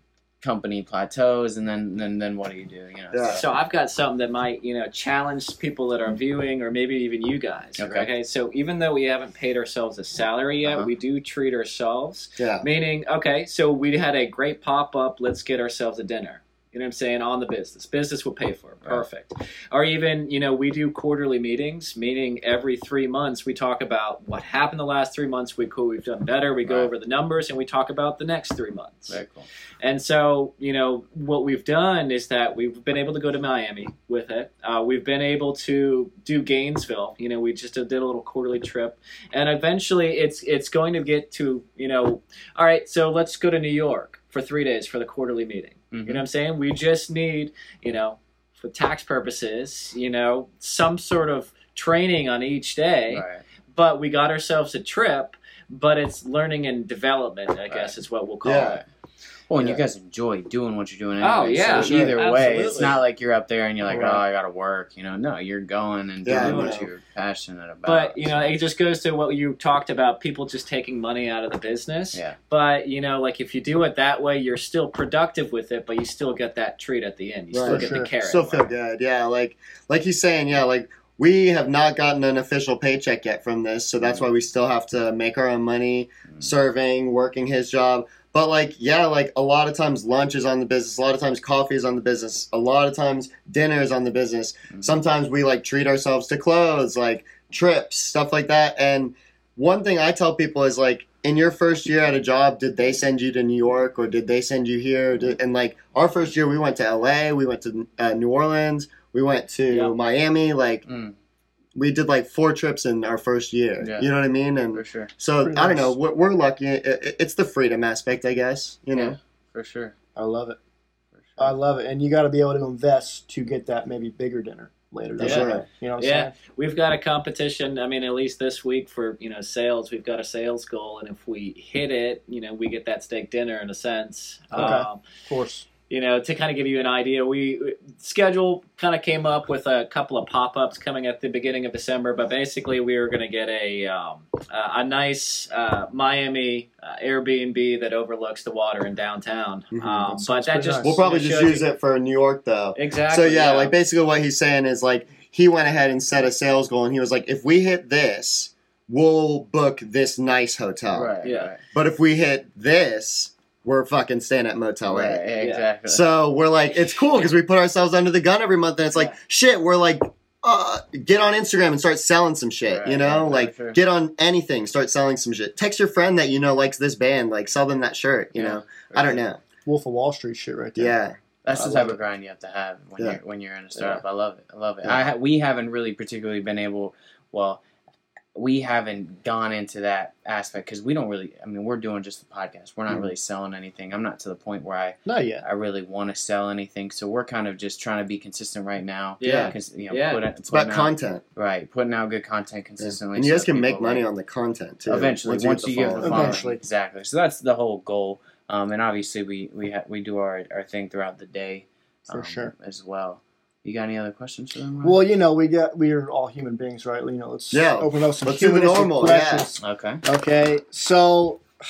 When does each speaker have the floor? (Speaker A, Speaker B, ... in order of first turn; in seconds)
Speaker A: 0.4-3.5, 7.8-8.1, 26.6-26.9, 29.1-29.5, 45.9-46.2, 53.1-53.4, 57.7-57.9, 59.5-68.6, 110.9-111.2, 113.8-114.1, 114.7-115.1, 118.9-119.9, 121.2-121.5, 160.9-161.6, 164.9-166.0, 172.7-173.8, 178.3-179.2, 181.4-187.6, 188.3-204.0, 204.9-215.0, 219.6-220.0
Speaker B: 3.1-3.4, 12.4-12.7, 58.4-58.8, 61.7-62.2, 66.2-66.9, 77.5-110.8, 111.8-119.2, 125.2-125.7, 149.7-150.1, 150.8-161.1, 161.7-165.2, 165.9-179.4, 180.8-181.2, 199.2-199.6, 200.5-201.2, 202.8-206.4, 217.5-219.5
Speaker C: 3.3-29.2, 29.8-58.8, 61.2-63.0, 66.3-66.9, 67.9-78.7, 109.7-110.0, 125.2-135.0, 135.9-151.7, 152.8-153.7, 161.2-161.5, 165.4-165.7, 199.2-200.2
Speaker D: 63.9-64.2, 77.6-78.1, 115.4-116.0, 120.2-120.6, 121.4-126.3, 134.5-135.7, 150.1-151.0, 179.7-181.0, 181.5-182.0, 183.8-184.0, 195.1-195.4, 206.0-206.6, 212.1-212.5, 214.8-221.4